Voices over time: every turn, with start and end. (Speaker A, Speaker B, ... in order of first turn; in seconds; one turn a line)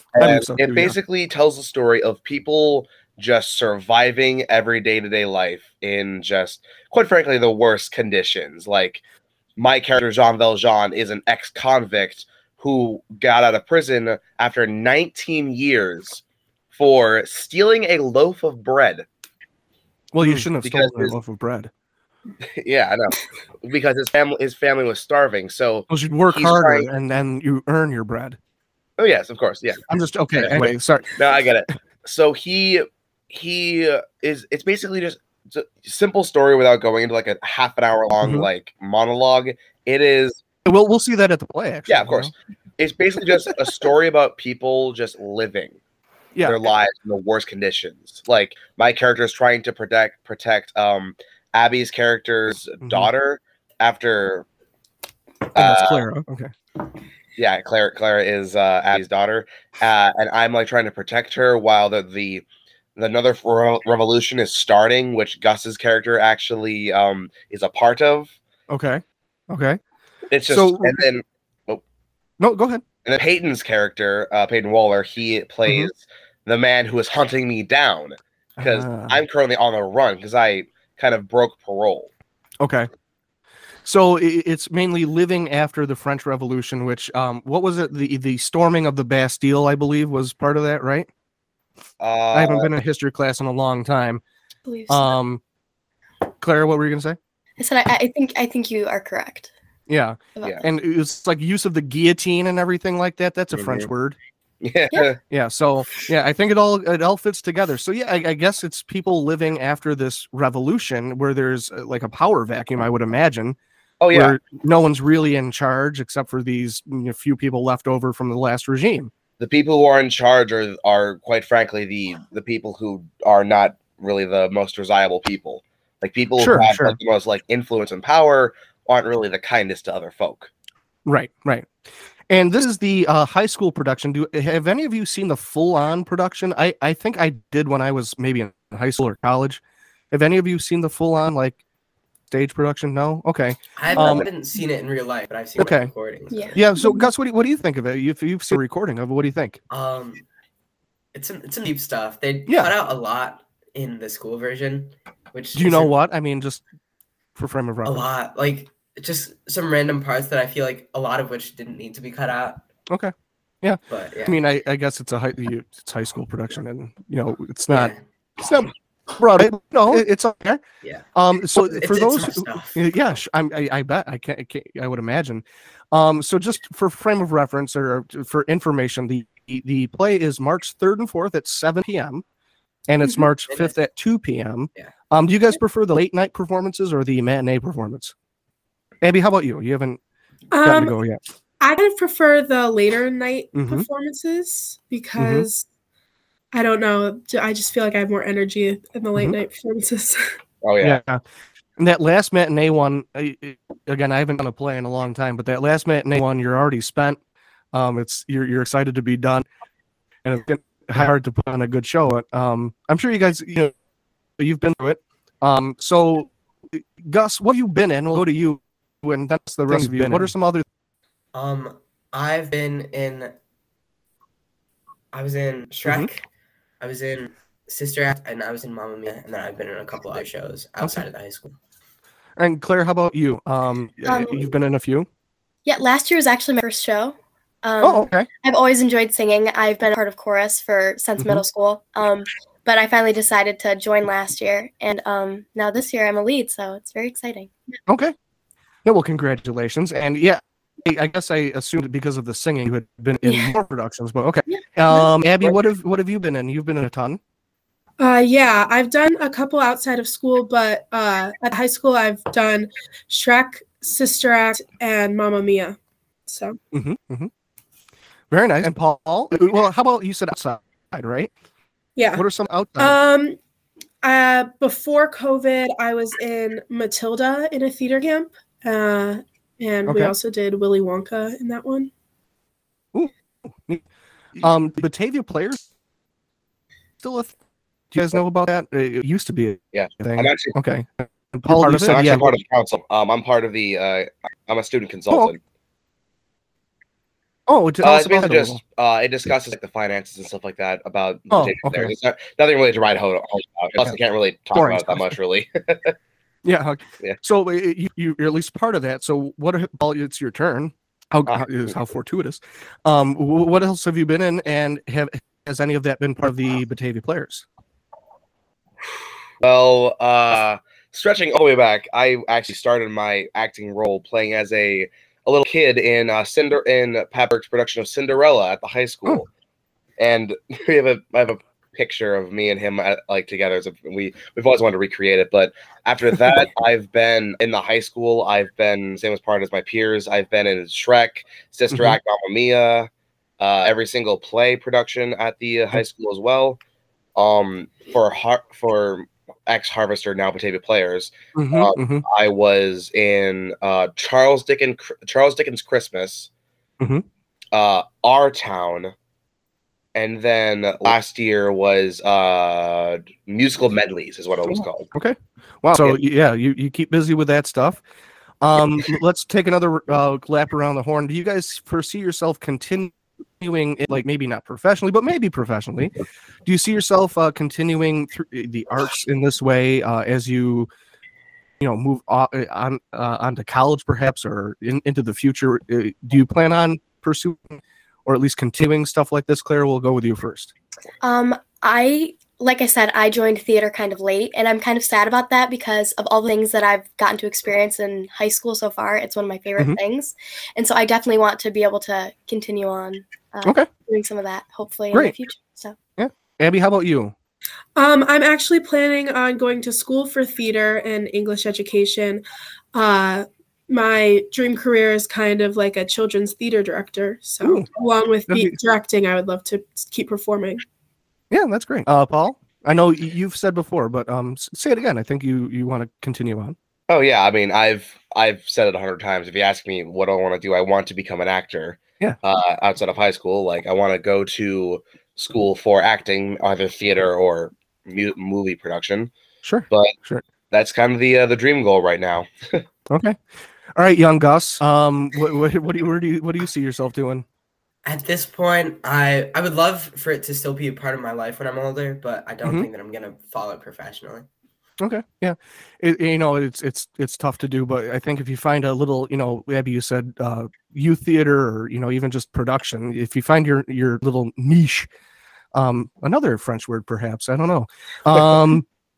Speaker A: 0.1-9.0
Speaker B: 0.2-1.0
Speaker A: 9.6-16.2
Speaker A: 16.7-19.1
Speaker B: 20.1-21.7
Speaker A: 20.2-21.2
Speaker A: 22.5-26.9
Speaker B: 25.9-28.4
Speaker A: 29.0-29.8
Speaker B: 29.9-31.1
Speaker A: 30.4-40.4
Speaker B: 38.2-38.5
Speaker B: 40.7-42.3
Speaker A: 41.9-45.8
Speaker A: 46.4-54.5
Speaker B: 52.8-53.1
Speaker A: 55.5-56.1
Speaker B: 55.5-56.5
Speaker A: 57.4-62.5
Speaker A: 63.0-68.3
Speaker B: 68.7-69.8
Speaker A: 70.3-71.8
Speaker B: 70.5-71.0
Speaker B: 72.4-72.8
Speaker A: 73.0-82.1
Speaker B: 78.6-79.2
Speaker B: 82.6-82.9
Speaker B: 83.8-91.1
Speaker A: 92.0-92.7
Speaker B: 92.3-94.2
Speaker C: 94.7-95.2
Speaker B: 94.9-95.4
Speaker B: 96.4-97.2
Speaker C: 97.6-99.5
Speaker B: 99.9-104.2
Speaker C: 100.4-100.7
Speaker A: 103.5-103.9
Speaker A: 104.6-105.2
Speaker B: 105.3-113.6
Speaker A: 114.0-114.4
Speaker B: 114.1-119.1
Speaker A: 119.4-130.5
Speaker B: 126.4-127.0
Speaker B: 131.1-131.7
Speaker B: 132.3-139.6
Speaker B: 140.1-141.6
Speaker B: 142.3-144.3
Speaker D: 143.8-146.6
Speaker B: 145.6-145.9
Speaker C: 146.3-146.8
Speaker B: 146.6-149.6
Speaker D: 149.7-150.2
Speaker D: 151.1-155.9
Speaker B: 155.6-156.6
Speaker B: 157.4-158.1
Speaker D: 157.8-162.7
Speaker B: 162.9-170.6
Speaker D: 163.9-164.4
Speaker D: 167.7-168.0
Speaker D: 170.8-172.9
Speaker B: 171.2-182.2
Speaker B: 182.9-188.1
Speaker D: 183.5-183.7
Speaker B: 189.0-190.0
Speaker E: 190.5-190.9
Speaker B: 190.6-191.2
Speaker E: 191.6-195.7
Speaker B: 193.5-193.9
Speaker B: 195.2-195.5
Speaker E: 196.5-200.3
Speaker A: 200.6-201.0
Speaker B: 200.8-201.2
Speaker B: 201.8-207.2
Speaker B: 207.7-209.5
Speaker B: 210.2-213.7
Speaker B: 214.4-220.6
Speaker D: 221.3-223.3
Speaker D: 225.1-226.3
Speaker D: 226.8-231.6
Speaker B: 232.4-235.1
Speaker C: 234.1-234.5
Speaker C: 235.7-247.5
Speaker B: 237.8-238.3
Speaker B: 241.2-241.4
Speaker B: 247.9-248.1
Speaker B: 248.8-257.2
Speaker C: 253.2-253.6
Speaker C: 254.5-255.1
Speaker E: 258.0-266.6
Speaker B: 266.7-267.3
Speaker B: 268.3-271.3
Speaker E: 272.0-272.3
Speaker B: 272.1-273.0
Speaker E: 272.8-273.4
Speaker E: 274.0-281.9
Speaker B: 279.9-280.1
Speaker B: 284.4-285.6
Speaker B: 287.0-287.3
Speaker B: 287.9-292.3
Speaker A: 289.7-290.6
Speaker A: 291.5-295.4
Speaker B: 297.5-298.6
Speaker A: 297.8-305.9
Speaker B: 301.3-301.9
Speaker B: 304.5-305.1
Speaker B: 306.4-317.4
Speaker A: 311.3-311.7
Speaker A: 319.4-329.3
Speaker A: 330.0-346.6
Speaker B: 341.7-342.0
Speaker A: 347.2-356.3
Speaker B: 351.4-352.0
Speaker B: 356.8-357.1
Speaker A: 357.5-358.9
Speaker A: 359.9-364.9
Speaker B: 364.5-367.8
Speaker B: 368.4-375.9
Speaker B: 376.5-380.7
Speaker B: 381.6-390.5
Speaker C: 391.0-405.8
Speaker B: 406.0-407.1
Speaker E: 407.8-420.6
Speaker B: 417.4-417.7
Speaker B: 418.3-418.6
Speaker B: 421.3-426.6
Speaker A: 426.9-439.1
Speaker B: 439.4-440.2
Speaker A: 440.5-442.6
Speaker B: 442.9-443.2
Speaker B: 443.7-447.2
Speaker D: 447.9-454.3
Speaker B: 454.8-464.9
Speaker B: 465.5-468.6